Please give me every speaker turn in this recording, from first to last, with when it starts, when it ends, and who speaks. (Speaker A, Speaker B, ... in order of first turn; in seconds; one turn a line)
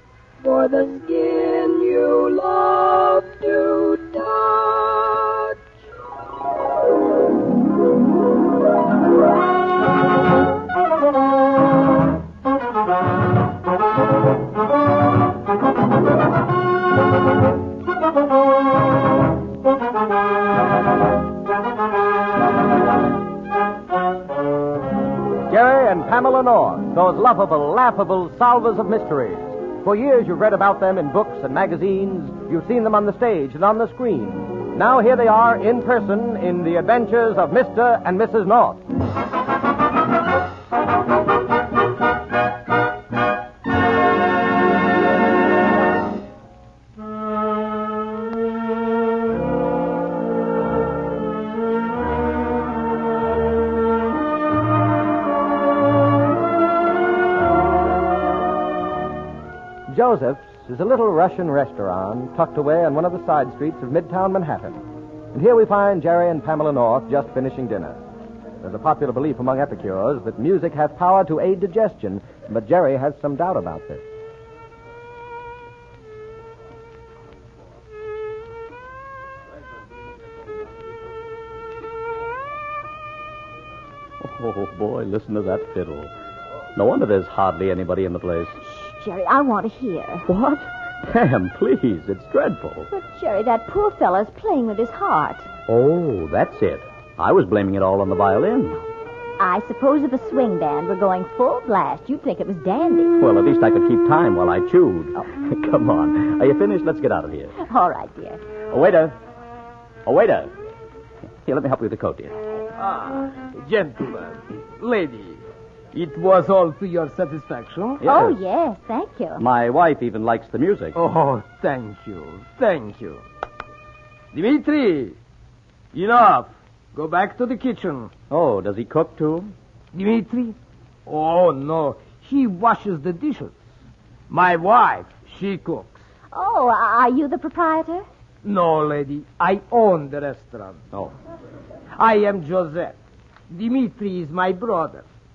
Speaker A: 0.4-5.5
Speaker B: 25.5-38.8
Speaker B: 59.9-68.0
Speaker B: 68.6-74.0
Speaker C: 84.2-86.1
Speaker C: 86.7-88.5
Speaker D: 88.6-90.3
Speaker C: 90.3-92.9
Speaker D: 92.9-95.5
Speaker C: 95.7-98.8
Speaker D: 99.4-103.2
Speaker C: 103.2-107.5
Speaker D: 107.6-108.4
Speaker C: 108.7-109.1
Speaker C: 110.0-110.5
Speaker C: 111.5-112.4
Speaker E: 112.8-115.4
Speaker E: 115.9-118.0
Speaker C: 118.0-118.3
Speaker D: 118.0-119.4
Speaker C: 119.4-121.0
Speaker E: 120.9-123.2
Speaker E: 124.3-125.2
Speaker E: 125.9-128.1
Speaker C: 128.3-129.5
Speaker E: 129.9-133.6
Speaker E: 134.3-136.0
Speaker D: 136.3-138.1
Speaker E: 138.4-140.8
Speaker E: 141.9-143.0
Speaker E: 143.5-145.1